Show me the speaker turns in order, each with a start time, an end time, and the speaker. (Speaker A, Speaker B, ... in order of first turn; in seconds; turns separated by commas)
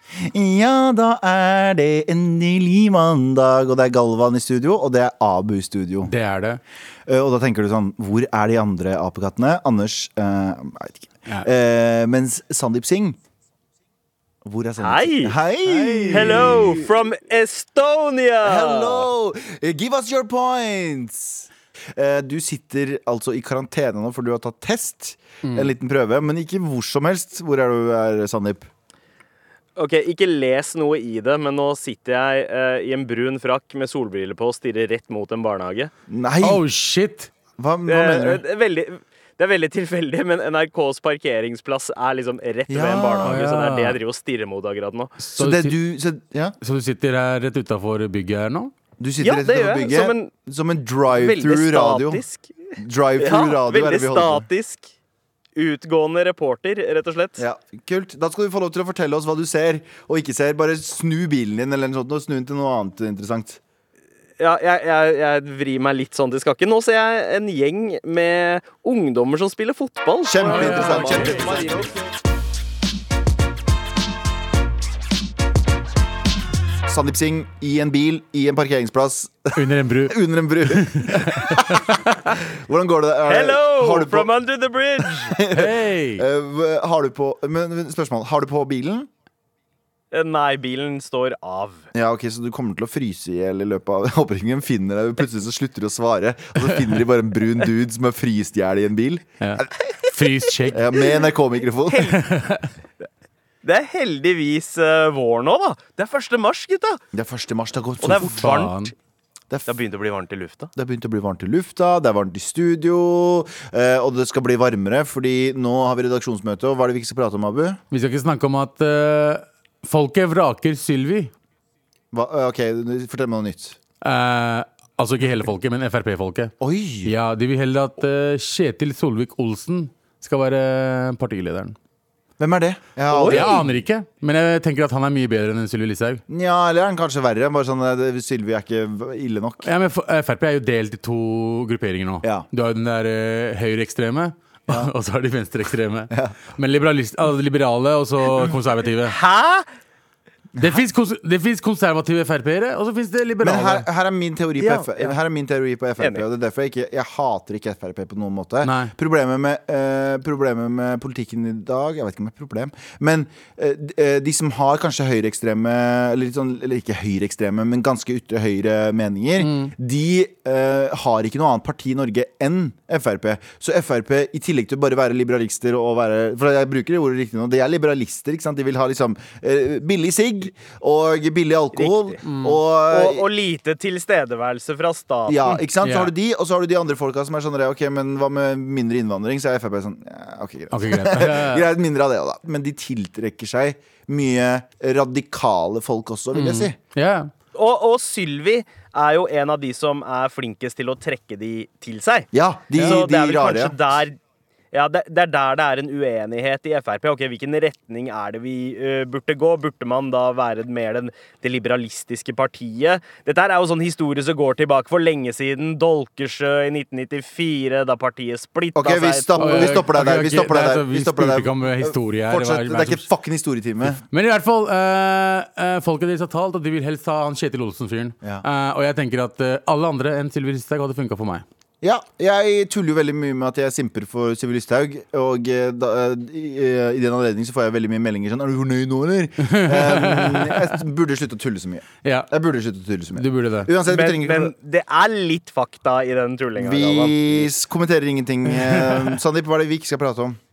Speaker A: 0.2-6.1, Speaker B: 6.0-6.6, Speaker A: 7.1-13.2, Speaker A: 14.4-16.9, Speaker C: 14.8-15.4, Speaker B: 15.7-16.8, Speaker C: 16.1-19.1, Speaker A: 18.4-28.7, Speaker B: 25.4-25.7, Speaker C: 29.8-35.9, Speaker A: 36.1-36.6, Speaker B: 36.4-37.3, Speaker A: 37.6-38.4, Speaker C: 37.9-45.2, Speaker A: 42.7-43.4, Speaker B: 43.2-44.0, Speaker B: 45.2-45.7, Speaker A: 45.4-46.6, Speaker B: 46.6-48.7, Speaker A: 49.0-52.2, Speaker C: 49.2-50.3, Speaker C: 51.1-52.5, Speaker A: 52.8-54.5, Speaker C: 53.2-54.9, Speaker C: 55.6-57.5, Speaker A: 57.4-63.6, Speaker C: 64.4-72.0, Speaker A: 70.2-71.9, Speaker B: 70.5-71.6, Speaker A: 76.8-84.3, Speaker B: 79.6-82.2, Speaker C: 83.3-85.3, Speaker A: 85.2-89.1, Speaker B: 85.5-86.2, Speaker C: 90.1-91.9, Speaker A: 91.9-99.7, Speaker B: 99.4-100.9, Speaker A: 100.7-102.2, Speaker C: 101.9-102.3, Speaker B: 102.1-102.7, Speaker C: 103.6-107.0, Speaker A: 107.1-108.5, Speaker C: 108.0-108.9, Speaker B: 108.0-108.9, Speaker C: 109.7-110.7, Speaker A: 110.8-117.8, Speaker B: 117.9-121.3, Speaker A: 122.1-123.8, Speaker B: 124.0-126.5, Speaker A: 126.6-127.1, Speaker B: 127.0-131.8, Speaker A: 132.4-133.7, Speaker C: 133.1-133.6, Speaker B: 133.3-136.2, Speaker A: 136.3-139.7, Speaker B: 139.6-149.2, Speaker A: 146.1-146.4, Speaker C: 149.1-149.7, Speaker B: 150.6-153.9, Speaker A: 153.4-183.2, Speaker C: 154.6-155.2, Speaker C: 156.0-156.2, Speaker B: 158.6-158.9, Speaker B: 169.4-169.7, Speaker C: 181.8-182.2, Speaker B: 182.2-182.6, Speaker C: 182.9-185.6, Speaker A: 185.3-196.8, Speaker B: 185.8-186.1, Speaker B: 190.7-191.7, Speaker B: 196.3-197.3, Speaker C: 197.5-204.2, Speaker A: 202.3-203.8, Speaker C: 204.7-219.7, Speaker A: 218.8-224.0, Speaker B: 219.4-223.1, Speaker B: 224.0-231.4, Speaker A: 231.8-244.5, Speaker B: 239.4-240.8, Speaker B: 242.0-242.3, Speaker B: 243.2-243.7, Speaker C: 243.9-247.5, Speaker A: 246.6-250.4, Speaker B: 248.5-249.2